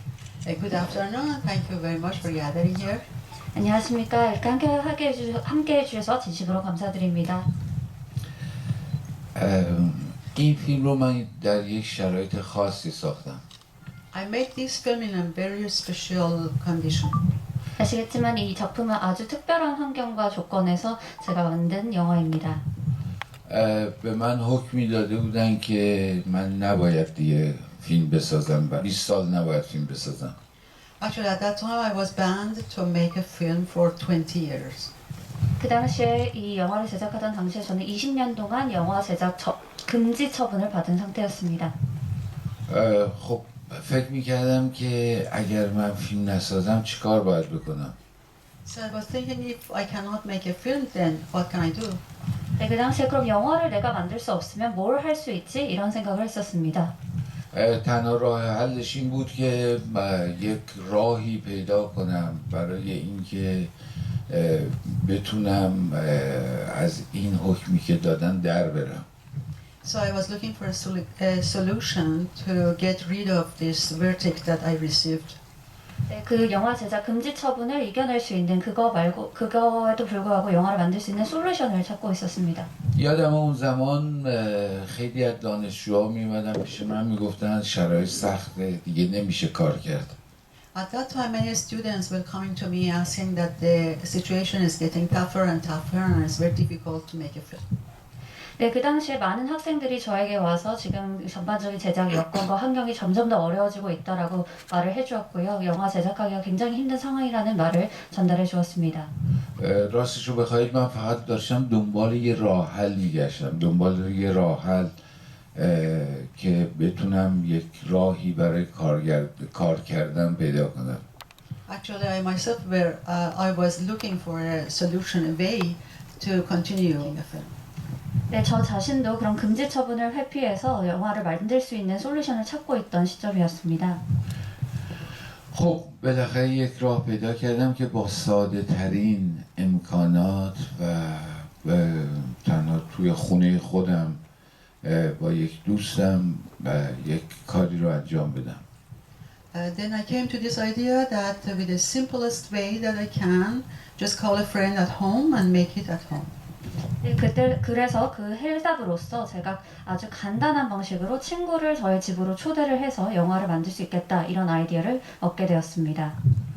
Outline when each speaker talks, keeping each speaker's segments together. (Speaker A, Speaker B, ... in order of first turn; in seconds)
Speaker A: 0.4-3.0, 14.1-17.2, 31.0-34.9, 48.6-52.0, 69.8-75.4, 90.7-97.6, 121.7-127.5, 149.5-156.3
Speaker B: 3.5-7.5, 17.8-22.6, 35.6-41.7, 52.6-56.9, 76.1-82.7, 98.6-109.1, 128.3-134.0, 157.0-166.1
Speaker C: 9.3-13.4, 23.4-30.3, 42.7-47.9, 57.5-63.7, 64.3-69.0, 82.9-90.2, 109.5-114.9, 115.5-121.0, 135.5-144.2, 144.8-148.6